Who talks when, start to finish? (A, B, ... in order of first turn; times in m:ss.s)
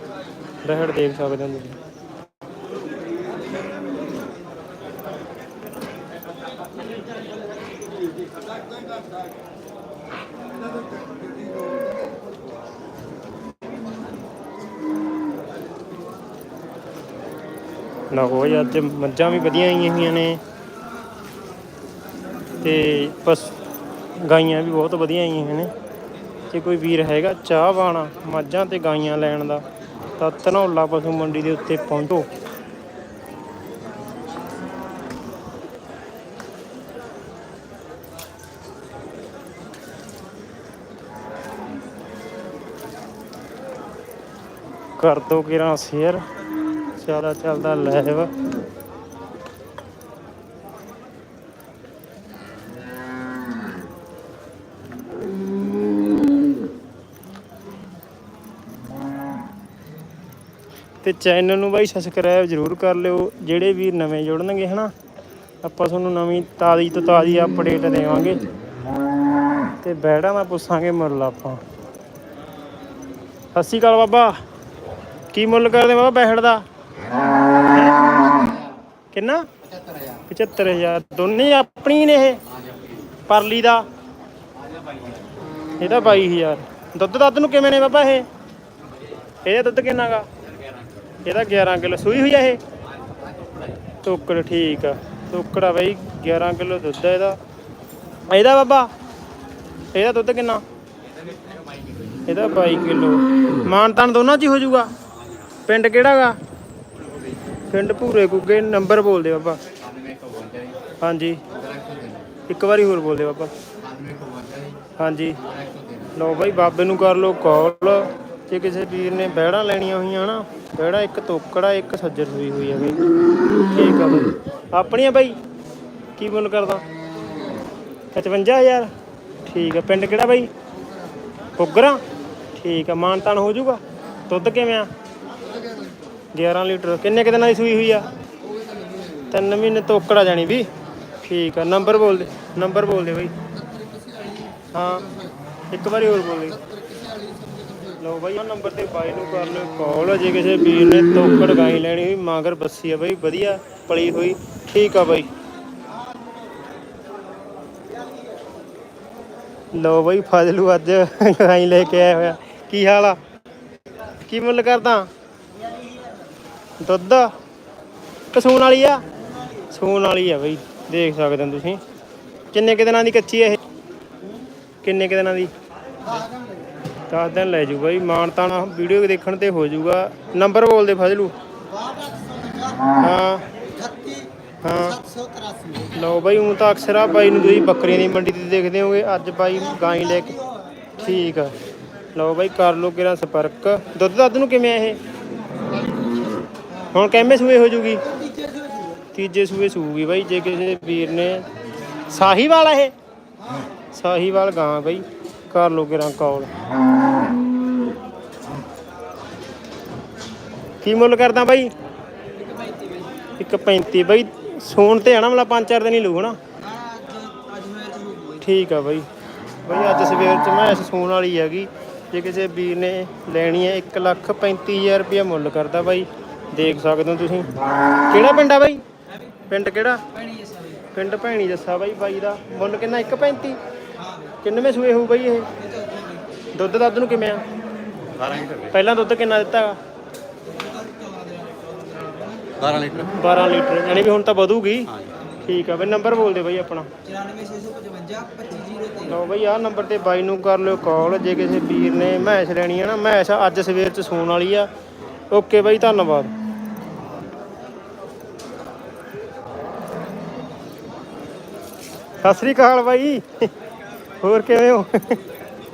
0:00.6-0:01.8 A
0:18.1-0:20.4 A
0:22.6-0:23.5 A
0:24.2-0:25.7 A
0:26.5-0:29.6 A
0:30.2-0:32.3 A
0:45.0-0:46.2 A
0:47.0-0:48.3 A
1:01.0-1:04.9 A
1:05.6-1:08.4 A
1:09.8-1:11.6 A
1:13.5-1:14.4 A
1:15.3-1:16.6 A
1:19.1-1:19.5 A
1:20.3-1:22.4 A
1:23.2-1:23.8 A
1:25.8-1:28.3 A
1:29.4-1:30.3 A
1:31.2-1:32.6 A
1:34.0-1:37.4 A
1:38.3-1:38.9 A
1:39.9-1:40.6 A
1:42.3-1:44.9 A
1:45.6-1:46.4 A
1:47.7-1:49.6 A
1:50.0-1:50.8 B
1:51.0-1:51.4 A
1:51.7-1:52.2 B
1:52.5-1:53.5 A
1:53.9-1:54.7 B
1:55.0-1:55.4 A
1:56.1-2:03.0 A
2:03.6-2:05.4 A
2:06.2-2:06.8 A
2:08.1-2:08.9 A
2:09.4-2:10.5 A
2:11.6-2:12.0 A
2:12.5-2:14.9 A
2:16.3-2:18.1 A
2:19.3-2:20.7 A
2:21.2-2:23.3 A
2:24.0-2:24.4 C
2:24.7-2:25.1 A
2:25.7-2:26.6 A
2:27.0-2:27.8 C
2:28.0-2:35.3 A
2:36.1-2:36.3 C
2:39.7-2:43.2 A
2:44.2-2:45.1 A
2:45.6-2:46.1 C
2:46.8-2:47.3 A
2:48.3-2:49.0 A
2:49.7-2:51.8 A
2:52.5-2:53.6 A
2:54.8-2:55.5 A
2:56.0-2:56.6 C
2:57.1-3:01.3 A
3:01.7-3:02.9 C
3:03.0-3:03.5 A
3:03.6-3:04.3 C
3:04.6-3:05.0 A
3:04.9-3:05.9 C
3:05.9-3:10.4 A
3:09.6-3:10.9 C
3:11.0-3:11.5 A
3:12.1-3:15.0 A
3:15.7-3:16.9 C
3:16.9-3:18.0 A
3:18.0-3:19.0 C
3:19.1-3:21.4 A
3:22.1-3:22.9 A
3:23.9-3:26.5 A
3:30.8-3:31.7 A
3:32.3-3:33.3 C
3:33.4-3:36.4 A
3:36.6-3:38.4 C
3:38.4-3:39.1 A
3:39.6-3:47.5 A
3:48.1-3:48.8 A
3:49.1-3:49.4 C
3:49.5-3:50.0 A
3:50.1-3:50.8 C
3:50.9-3:53.6 A
3:54.0-3:54.4 C
3:54.4-3:55.5 A
3:55.6-3:56.2 C
3:56.5-3:57.4 A
3:58.1-3:58.8 B
3:58.7-3:59.8 A
4:00.4-4:02.5 C
4:02.6-4:03.1 B
4:03.2-4:04.9 A
4:05.4-4:06.9 A
4:07.0-4:09.2 C
4:09.1-4:14.7 A
4:15.3-4:16.3 A
4:22.2-4:23.5 A
4:24.2-4:25.2 A